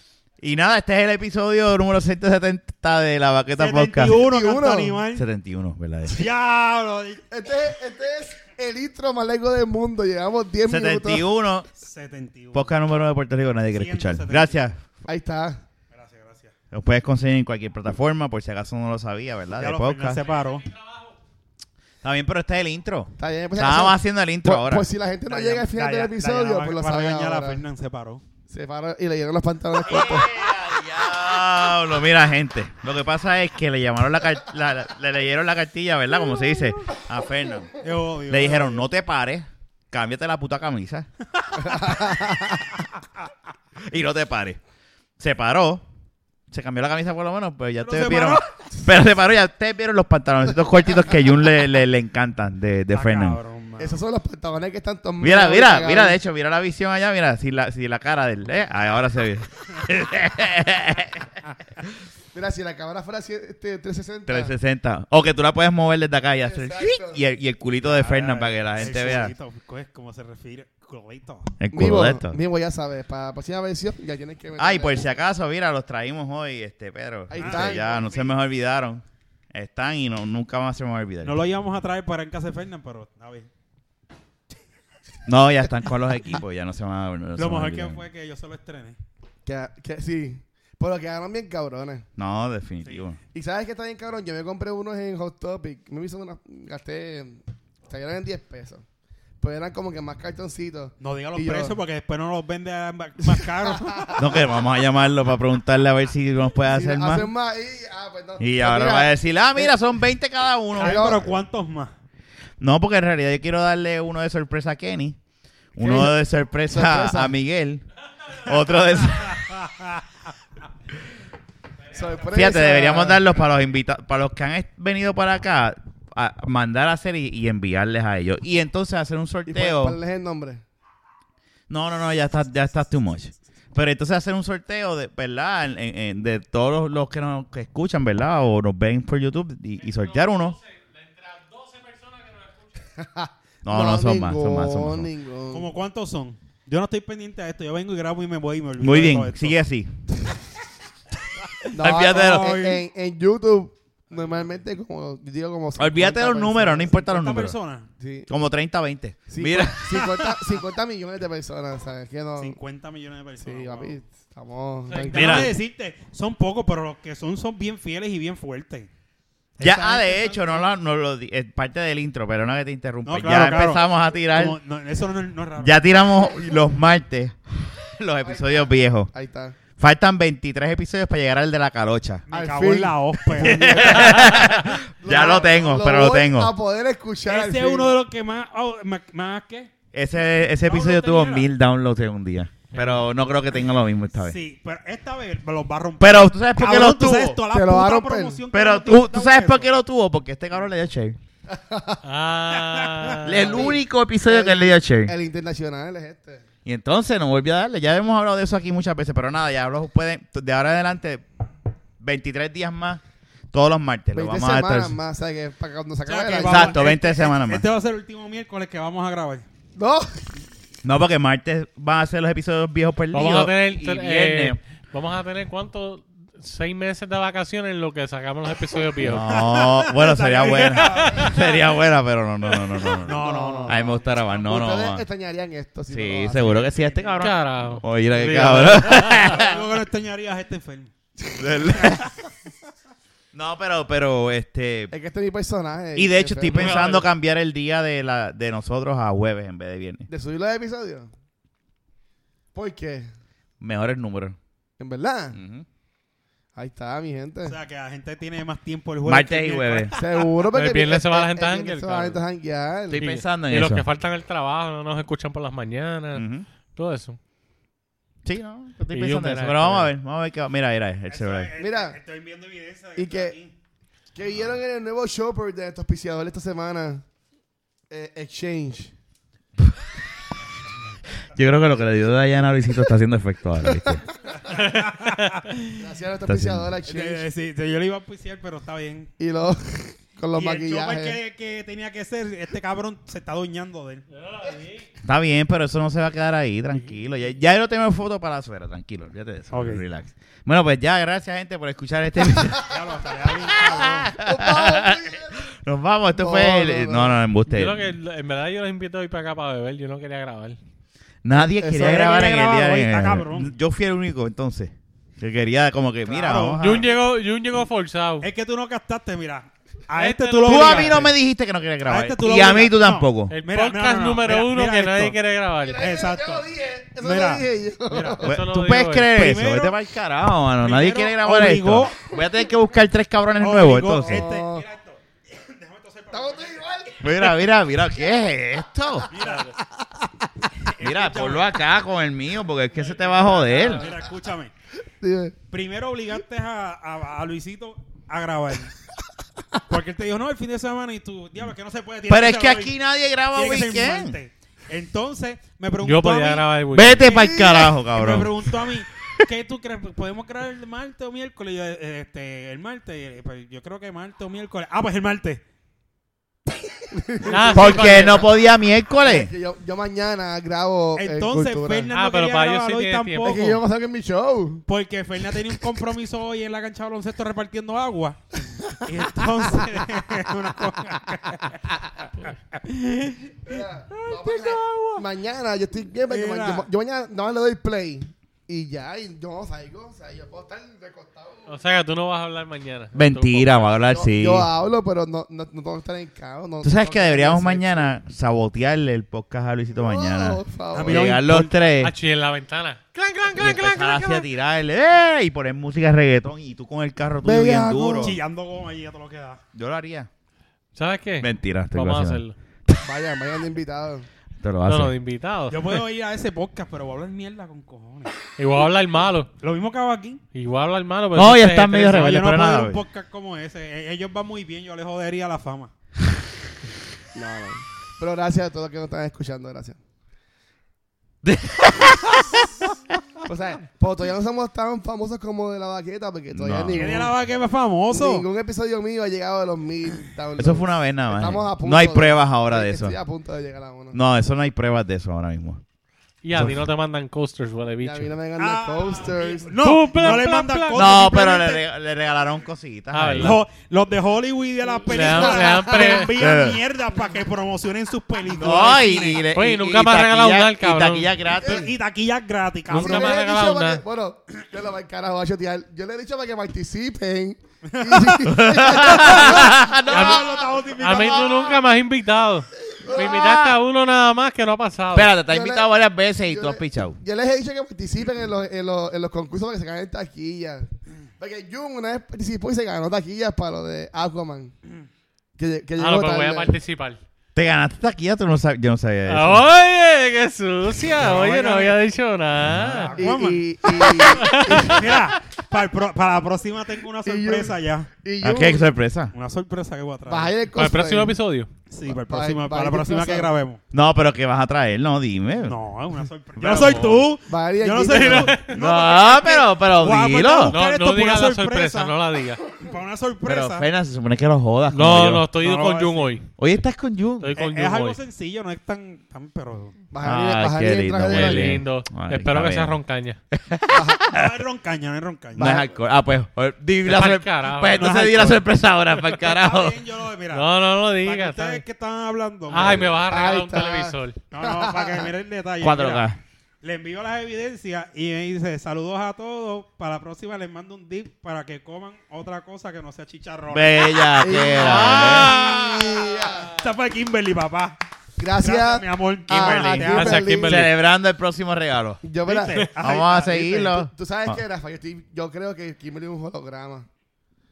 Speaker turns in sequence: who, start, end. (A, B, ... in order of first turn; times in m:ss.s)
0:00.4-0:04.2 A
0:03.6-0:05.2 B
0:04.1-0:05.0 C
0:05.1-0:06.3 A
0:06.1-0:07.2 B
0:07.3-0:11.2 C
0:10.6-0:11.7 A
0:11.8-0:12.7 B
0:12.5-0:14.8 A
0:13.7-0:14.6 B
0:15.1-0:15.6 C
0:15.9-0:16.5 B
0:16.7-0:20.2 A
0:19.6-0:20.7 B
0:22.0-0:24.8 A
0:23.2-0:27.6 C
0:25.2-0:28.2 B
0:28.5-0:30.3 C
0:29.8-0:37.7 A
0:37.8-0:38.9 B
0:38.3-0:41.1 A
0:41.6-0:42.7 C
0:43.8-0:44.6 A
0:45.2-0:45.8 A
0:46.5-0:53.4 A
0:47.8-0:48.4 B
0:52.9-0:54.0 B
0:53.8-0:56.2 C
0:55.2-1:01.4 A
1:02.3-1:04.5 C
1:04.3-1:09.3 A
1:06.4-1:07.2 C
1:07.8-1:11.5 B
1:11.6-1:12.4 A
1:11.7-1:15.0 C
1:14.6-1:21.4 A
1:17.3-1:18.1 C
1:17.4-1:18.3 B
1:21.2-1:23.5 B
1:25.2-1:28.0 A
1:27.4-1:29.0 B
1:29.4-1:32.0 C
1:32.2-1:33.2 A
1:33.3-1:38.8 C
1:39.4-1:41.8 C
1:41.0-1:44.2 B
1:43.3-1:44.2 C
1:44.2-1:47.3 A
1:46.7-1:49.7 C
1:48.4-1:51.2 A
1:50.8-1:51.9 B
1:50.8-1:51.3 C
1:52.6-1:55.2 A
1:55.7-1:59.5 A
1:55.8-1:56.1 C
1:56.7-1:57.3 C
1:59.3-2:00.0 B
2:01.9-2:03.3 C
2:02.3-2:10.0 A
2:09.5-2:10.6 C
2:11.7-2:20.6 A
2:19.8-2:22.7 D
2:23.0-2:25.7 C
2:23.6-2:25.1 A
2:25.5-2:29.6 B
2:28.8-2:29.9 A
2:31.7-2:37.0 C
2:31.8-2:32.6 A
2:32.0-2:32.8 B
2:34.2-2:34.4 B
2:35.8-2:37.6 A
2:37.0-2:37.9 B
2:38.0-2:38.3 C
2:38.3-2:39.8 A
2:39.3-2:42.6 C
2:39.8-2:40.4 B
2:42.4-2:44.0 B
2:43.4-2:45.5 C
2:44.9-2:45.2 D
2:45.0-2:48.9 B
2:45.1-2:45.5 A
2:49.6-2:50.6 B
2:49.6-2:54.6 A
2:53.0-2:55.8 B
2:55.6-2:59.1 A
2:58.2-2:59.6 C
2:59.8-3:02.2 A
3:02.3-3:04.0 B
3:02.3-3:08.0 C
3:03.3-3:06.5 A
3:05.2-3:05.6 B
3:07.2-3:09.7 B
3:09.9-3:14.4 A
3:10.5-3:11.5 B
3:12.7-3:13.0 D
3:14.2-3:19.7 B
3:16.0-3:17.4 A
3:17.5-3:18.4 C
3:18.5-3:21.2 A
3:21.5-3:22.0 C
3:22.0-3:23.7 D
3:22.5-3:23.2 B
3:23.2-3:25.1 A
3:23.4-3:26.4 C
3:26.6-3:31.2 A
3:32.0-3:35.0 A
3:34.1-3:36.9 C
3:36.0-3:39.4 B
3:36.4-3:37.6 A
3:39.8-3:40.2 C
3:40.8-3:44.6 A
3:43.1-3:49.4 D
3:49.0-3:55.0 A
3:49.2-3:51.5 B
3:50.8-3:51.3 D
3:52.8-3:54.1 B
3:53.1-3:56.8 C
3:55.9-3:59.6 A
3:56.6-3:57.2 B
3:57.2-3:59.3 D
3:59.2-4:00.9 B
4:01.2-4:02.0 C
4:01.4-4:02.0 A
4:01.7-4:02.0 B
4:03.3-4:04.9 A
4:04.9-4:06.9 C
4:06.0-4:10.1 A
4:06.5-4:07.1 D
4:10.1-4:11.1 C
4:12.5-4:13.1 C
4:13.6-4:14.4 A
4:14.8-4:15.4 C
4:15.3-4:15.6 A
4:16.6-4:17.6 C
4:17.4-4:20.3 B
4:19.0-4:19.9 A
4:19.9-4:23.0 C
4:20.5-4:22.2 D
4:22.9-4:23.8 A
4:22.9-4:27.2 D
4:26.1-4:26.4 A
4:28.2-4:31.5 A
4:28.9-4:29.9 D
4:31.1-4:33.5 B
4:31.6-4:32.0 C
4:33.0-4:33.4 C
4:34.1-4:37.0 C
4:37.9-4:38.9 C
4:41.3-4:44.0 A
4:43.6-4:44.4 C
4:44.5-4:45.6 B
4:44.6-4:45.3 D
4:45.8-4:47.2 C
4:46.3-4:46.7 A
4:46.8-4:49.1 B
4:49.2-4:51.2 C
4:50.3-4:54.0 B
4:54.1-4:54.9 D
4:55.0-5:02.7 A
4:59.5-4:59.8 B
5:02.6-5:04.1 B
5:03.5-5:07.9 A
5:04.1-5:05.4 C
5:06.1-5:07.2 C
5:07.5-5:10.6 D
5:11.2-5:16.8 A
5:11.6-5:12.2 C
5:11.7-5:13.5 B
5:16.0-5:16.9 B
5:16.6-5:18.3 D
5:18.2-5:21.1 B
5:19.9-5:21.0 D
5:20.4-5:23.3 A
5:21.8-5:25.2 B
5:23.3-5:25.8 D
5:25.6-5:28.3 C
5:25.8-5:26.5 B
5:27.0-5:28.3 B
5:28.2-5:29.1 D
5:28.2-5:34.2 A
5:29.1-5:29.8 B
5:30.6-5:32.0 B
5:33.4-5:36.7 B
5:34.0-5:34.6 C
5:36.1-5:37.4 C
5:37.0-5:39.1 A
5:39.1-5:39.5 B
5:39.2-5:39.5 D
5:40.6-5:41.5 B
5:40.8-5:43.9 A
5:42.7-5:44.5 B
5:45.0-5:45.3 C
5:45.5-5:48.7 B
5:49.7-5:52.7 B
5:52.1-5:54.2 A
5:53.3-5:56.4 B
5:55.8-5:57.1 D
5:56.7-5:58.3 A
5:57.0-6:05.4 B
5:57.2-5:57.6 C
6:06.9-6:08.2 C
6:07.2-6:08.3 D
6:07.5-6:09.3 A
6:09.0-6:11.9 C
6:11.0-6:13.6 B
6:11.9-6:13.4 D
6:13.2-6:14.6 C
6:14.7-6:18.2 B
6:18.5-6:19.7 C
6:18.8-6:21.6 B
6:22.2-6:25.0 B
6:23.4-6:31.5 C
6:26.1-6:26.7 B
6:31.5-6:33.7 D
6:32.9-6:34.5 A
6:33.9-6:37.9 C
6:36.6-6:41.9 A
6:39.7-6:41.1 C
6:40.7-6:41.6 B
6:41.8-6:44.3 D
6:43.3-6:48.2 A
6:47.2-6:48.2 C
6:47.9-6:49.4 B
6:49.5-6:50.1 A
6:50.7-6:52.4 D
6:51.2-6:52.7 A
6:52.8-6:54.1 C
6:54.4-6:54.9 A
6:54.6-6:55.8 D
6:55.5-6:58.1 B
6:58.4-6:59.3 D
6:59.4-7:00.2 B
7:00.3-7:02.3 D
7:01.1-7:02.8 A
7:01.9-7:05.7 B
7:07.1-7:09.8 C
7:11.2-7:12.7 A
7:13.2-7:17.1 C
7:16.3-7:17.1 A
7:16.7-7:18.2 B
7:17.9-7:24.0 C
7:20.4-7:23.0 A
7:23.9-7:25.6 A
7:26.2-7:28.1 D
7:26.3-7:26.6 A
7:27.8-7:29.5 C
7:28.4-7:31.6 B
7:29.6-7:30.9 D
7:30.7-7:33.4 A
7:32.9-7:33.4 D
7:33.2-7:39.2 B
7:34.9-7:36.1 D
7:35.0-7:36.1 C
7:36.2-7:36.6 A
7:38.2-7:41.7 A
7:39.3-7:41.1 D
7:41.4-7:43.2 B
7:41.4-7:41.7 C
7:42.7-7:43.8 D
7:42.7-7:49.7 C
7:47.6-7:48.3 B
7:48.2-7:50.3 A
7:48.8-7:51.6 B
7:49.9-7:50.2 D
7:50.8-7:55.1 D
7:52.7-7:53.2 C
7:52.9-7:53.6 A
7:54.9-7:57.0 A
7:55.3-7:55.7 C
7:56.2-8:04.5 C
8:05.4-8:06.6 C
8:05.8-8:07.0 D
8:07.3-8:09.4 A
8:09.1-8:12.9 D
8:11.2-8:11.7 B
8:12.4-8:12.9 A
8:12.8-8:17.9 B
8:13.0-8:15.0 C
8:13.8-8:14.8 D
8:17.0-8:18.7 C
8:18.2-8:19.1 A
8:19.1-8:20.3 B
8:20.1-8:21.2 C
8:20.5-8:21.5 D
8:21.7-8:23.6 B
8:21.9-8:23.3 C
8:23.7-8:25.6 A
8:25.4-8:31.9 B
8:26.4-8:27.0 A
8:26.5-8:27.0 D
8:27.2-8:28.3 C
8:27.9-8:28.4 D
8:28.5-8:30.5 A
8:30.5-8:32.4 D
8:32.6-8:33.6 B
8:33.2-8:35.3 A
8:34.7-8:36.3 D
8:35.4-8:36.1 B
8:36.4-8:37.3 A
8:37.2-8:38.0 D
8:37.4-8:39.7 B
8:39.9-8:41.6 C
8:40.0-8:42.8 A
8:41.1-8:43.2 D
8:43.3-8:44.4 A
8:43.7-8:44.0 C
8:44.1-8:45.6 B
8:45.3-8:45.7 C
8:45.4-8:49.8 A
8:46.8-8:47.9 D
8:47.7-8:48.4 B
8:49.1-8:50.5 B
8:50.3-8:51.6 D
8:51.0-8:52.9 B
8:52.5-8:54.2 D
8:52.5-8:53.0 A
8:53.1-8:55.1 C
8:54.3-8:56.1 B
8:55.6-8:56.2 A
8:56.6-9:07.8 B
9:03.5-9:05.4 A
9:04.2-9:06.5 C
9:04.6-9:05.6 D
9:08.2-9:10.6 C
9:08.4-9:10.3 B
9:09.3-9:09.8 A
9:09.9-9:10.7 D
9:10.4-9:12.0 A
9:12.0-9:12.7 C
9:12.2-9:13.8 B
9:12.8-9:14.4 A
9:13.7-9:16.9 C